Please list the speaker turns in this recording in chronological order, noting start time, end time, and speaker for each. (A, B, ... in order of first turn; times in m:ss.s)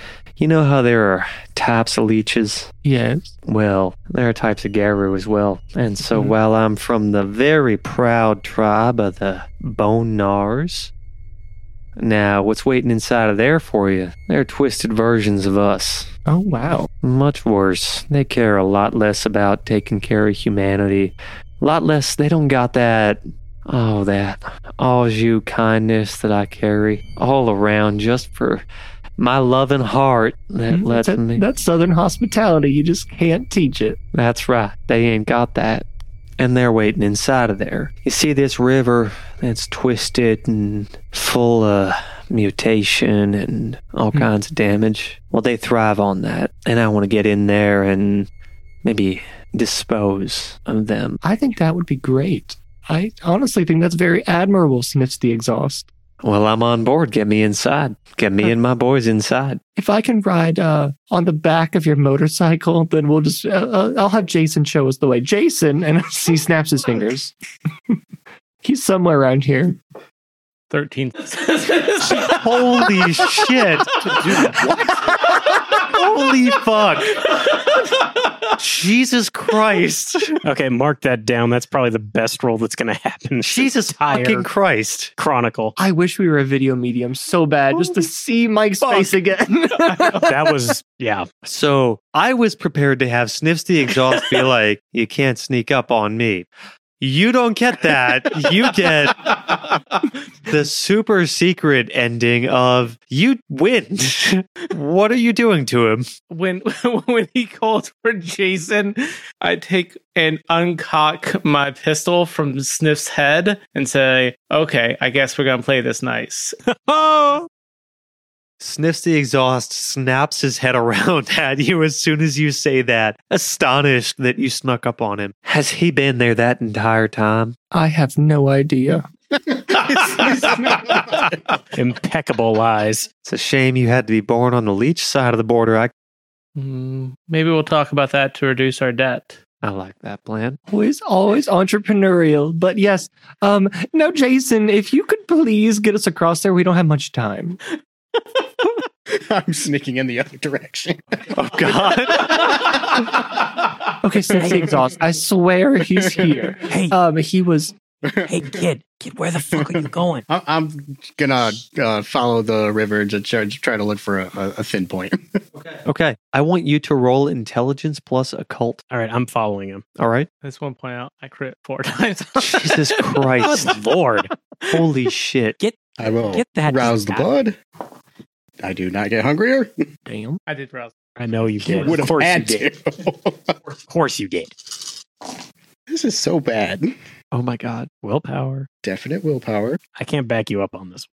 0:00.4-0:02.7 A
0:02.8-0:03.4 B
0:03.5-0:10.9 A
0:12.0-0:16.1 A
0:16.3-0:16.9 B
0:17.0-0:28.6 A
0:29.2-0:31.4 A
0:30.7-0:34.0 B
0:34.1-0:35.8 A
0:36.4-0:48.3 A
0:48.8-0:51.2 A
0:51.2-0:55.9 B
0:56.2-0:59.6 A
0:59.8-1:07.3 B
1:08.6-1:09.8 B
1:10.7-1:12.9 C
1:12.1-1:17.3 A
1:14.0-1:14.6 C
1:18.6-1:20.4 A
1:20.4-1:24.5 D
1:23.4-1:25.1 A
1:25.2-1:25.8 D
1:25.8-1:30.3 B
1:30.2-1:31.3 D
1:31.4-1:36.5 A
1:37.0-1:39.8 A
1:40.4-1:46.1 A
1:46.3-1:56.6 C
1:56.9-1:57.5 D
1:58.6-2:07.6 A
2:07.7-2:09.1 B
2:09.5-2:11.3 E
2:11.7-2:13.1 D
2:13.2-2:15.9 A
2:16.6-2:19.4 C
2:19.6-2:20.6 A
2:20.7-2:27.6 B
2:29.1-2:33.0 E
2:31.3-2:32.8 A
2:34.0-2:37.7 B
2:36.0-2:36.3 E
2:36.7-2:37.0 D
2:38.0-2:38.4 E
2:38.2-2:40.2 D
2:39.6-2:45.4 E
2:45.7-2:48.8 A
2:48.9-2:49.8 D
2:50.0-2:50.3 A
2:50.4-2:53.2 C
2:52.4-2:53.8 A
2:53.4-2:54.3 D
2:54.7-2:55.6 A
2:55.6-2:57.3 D
2:56.0-2:57.6 E
2:58.6-2:59.9 E
3:00.1-3:00.4 B
3:00.5-3:01.0 C
3:01.2-3:02.7 D
3:01.7-3:03.6 E
3:03.9-3:04.8 D
3:05.9-3:06.9 E
3:07.3-3:07.9 A
3:08.0-3:08.7 D
3:08.8-3:09.8 E
3:10.0-3:11.1 D